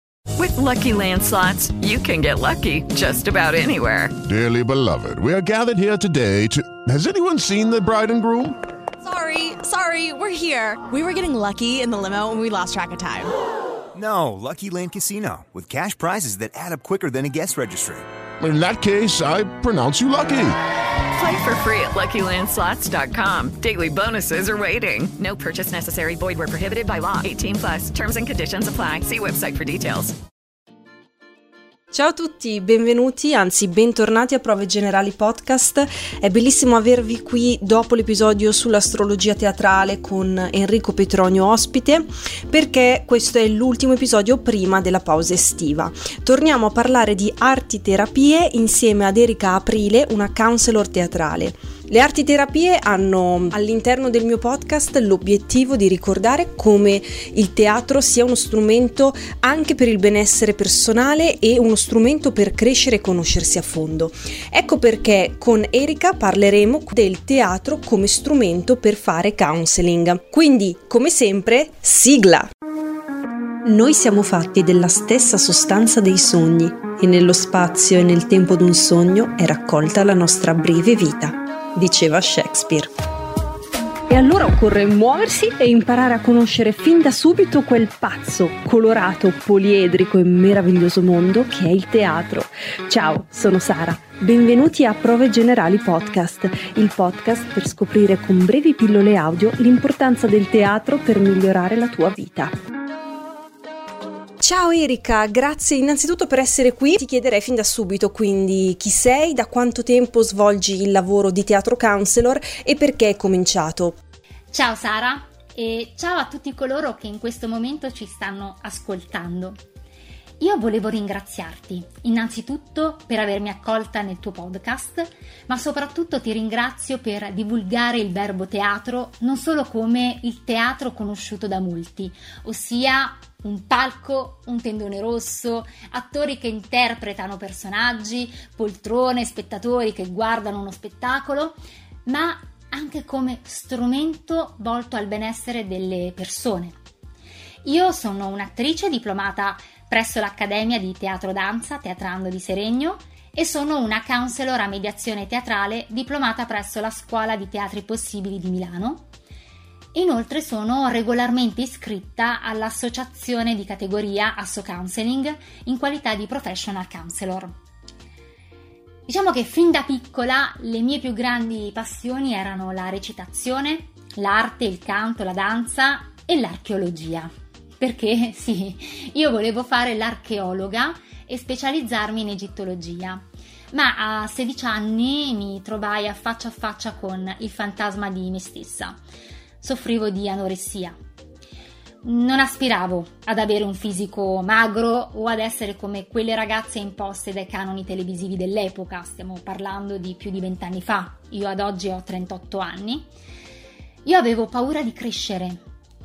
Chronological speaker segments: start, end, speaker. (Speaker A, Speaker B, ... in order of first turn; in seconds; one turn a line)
Speaker A: 0.3-4.1
Speaker B: 4.2-8.6
Speaker C: 9.0-13.3
Speaker D: 13.9-18.1
Speaker B: 18.4-20.6
Speaker A: 21.1-30.1
Speaker E: 31.9-72.5
Speaker E: 73.6-82.9
Speaker E: 84.1-102.5
Speaker E: 104.4-114.0
Speaker F: 114.5-119.6
Speaker F: 120.4-146.8
Speaker F: 147.6-159.1
Speaker F: 159.9-167.6
Speaker F: 169.1-189.0
Speaker F: 189.6-191.0
Speaker F: 192.0-203.1
Speaker F: 204.0-205.6